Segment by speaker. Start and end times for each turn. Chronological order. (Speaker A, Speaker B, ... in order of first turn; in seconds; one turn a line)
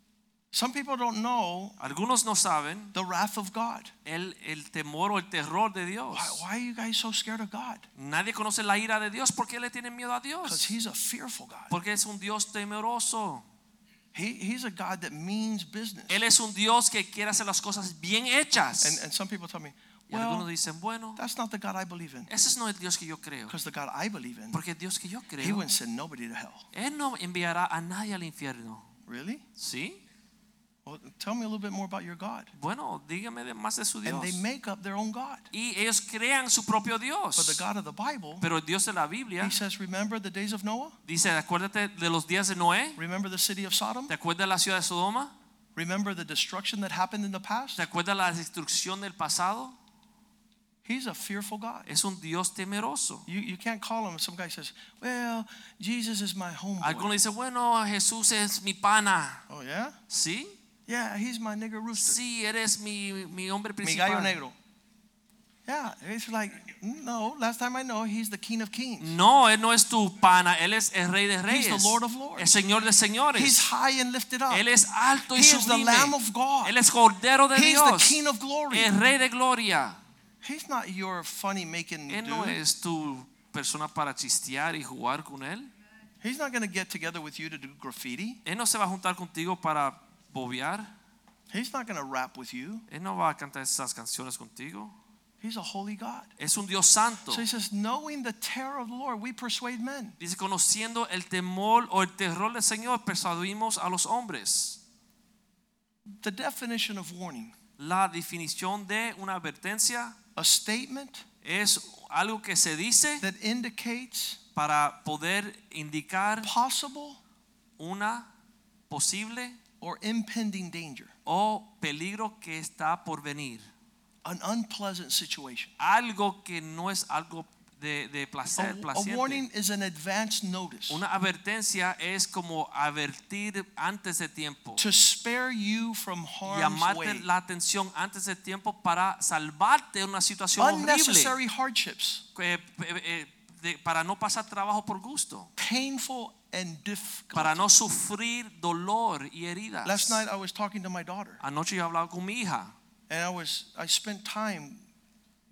Speaker A: 0.5-1.8
Speaker B: 1.8-3.0
Speaker A: 2.9-3.9
Speaker B: 4.0-6.4
Speaker A: 6.1-7.9
Speaker B: 8.0-10.7
Speaker A: 10.4-11.7
Speaker B: 11.7-13.4
Speaker A: 14.1-16.2
Speaker B: 16.1-19.0
Speaker A: 18.8-20.5
Speaker B: 20.1-21.2
Speaker A: 21.2-22.3
Speaker B: 22.3-23.6
Speaker A: 23.5-24.6
Speaker B: 24.5-25.6
Speaker A: 25.4-26.7
Speaker B: 26.7-28.9
Speaker A: 29.1-29.4
Speaker B: 29.6-30.0
Speaker A: 30.9-32.5
Speaker B: 32.5-34.4
Speaker A: 34.0-35.5
Speaker B: 35.5-37.6
Speaker A: 37.4-38.5
Speaker B: 38.4-39.6
Speaker A: 39.4-41.0
Speaker B: 41.1-43.0
Speaker A: 43.0-44.1
Speaker B: 44.1-45.3
Speaker A: 45.8-47.8
Speaker B: 47.8-49.8
Speaker A: 50.9-51.9
Speaker B: 51.9-53.3
Speaker A: 53.3-57.2
Speaker B: 56.8-59.4
Speaker A: 59.5-60.0
Speaker B: 60.1-60.6
Speaker A: 60.9-62.2
Speaker B: 62.0-64.4
Speaker A: 63.8-64.5
Speaker A: 65.7-69.1
Speaker B: 69.0-73.7
Speaker A: 71.5-72.6
Speaker A: 73.3-74.7
Speaker B: 74.5-80.0
Speaker A: 75.3-76.8
Speaker A: 77.5-78.9
Speaker A: 80.4-82.6
Speaker B: 82.1-85.7
Speaker A: 86.2-88.4
Speaker B: 88.5-90.9
Speaker A: 91.5-92.8
Speaker B: 92.9-94.9
Speaker A: 95.4-96.3
Speaker B: 96.4-97.5
Speaker A: 97.3-100.2
Speaker B: 100.2-104.8
Speaker A: 106.1-107.5
Speaker B: 107.8-110.2
Speaker A: 110.4-111.2
Speaker B: 111.4-113.2
Speaker A: 113.2-114.4
Speaker B: 114.6-116.5
Speaker A: 116.4-117.2
Speaker B: 117.8-118.3
Speaker B: 118.9-119.6
Speaker A: 119.8-121.1
Speaker B: 121.3-123.7
Speaker A: 124.2-125.7
Speaker B: 125.8-129.5
Speaker A: 128.6-131.0
Speaker B: 130.9-134.8
Speaker A: 134.8-137.3
Speaker B: 136.4-141.4
Speaker A: 140.6-142.2
Speaker B: 142.3-145.5
Speaker A: 145.6-147.7
Speaker B: 147.3-150.2
Speaker A: 149.8-151.4
Speaker B: 151.4-152.7
Speaker A: 153.1-154.8